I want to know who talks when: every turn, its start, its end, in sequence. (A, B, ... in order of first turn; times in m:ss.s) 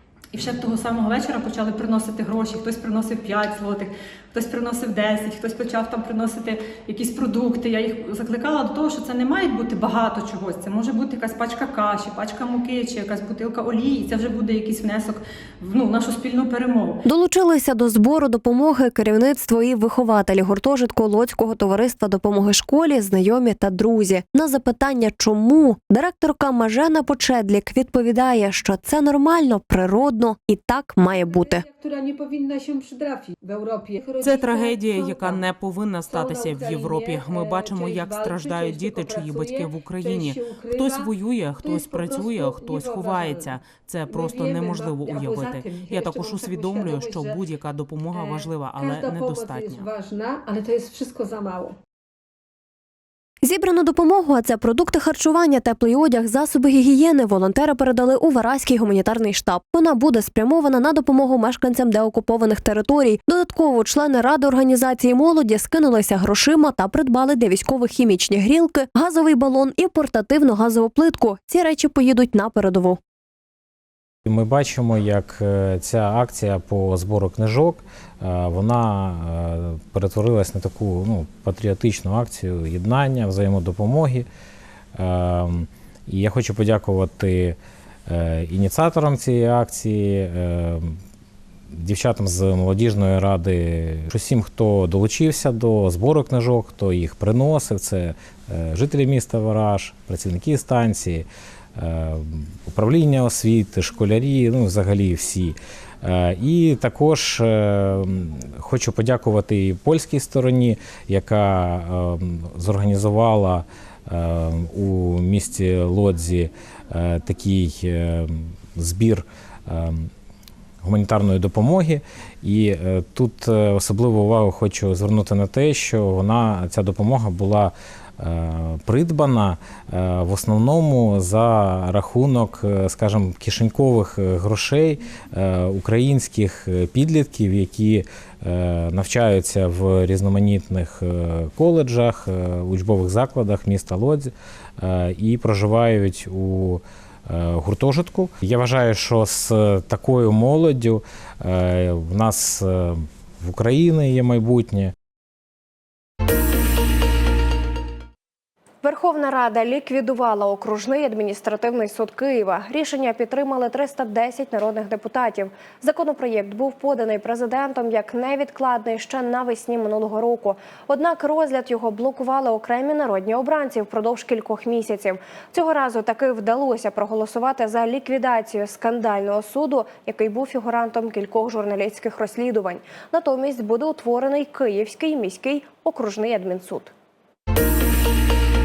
0:00.3-0:17.0 A
0:17.1-0:31.6 B
0:31.4-0:35.4 C
0:34.2-0:49.9 D
0:36.1-0:41.1 C
0:41.6-0:43.5 C
0:44.1-0:47.4 C
0:48.2-0:51.8 C
0:53.4-1:13.0 B
1:14.2-1:24.3 E
1:25.0-1:31.0 E
1:31.7-2:00.1 E
2:00.8-2:34.9 E
2:38.8-3:06.9 F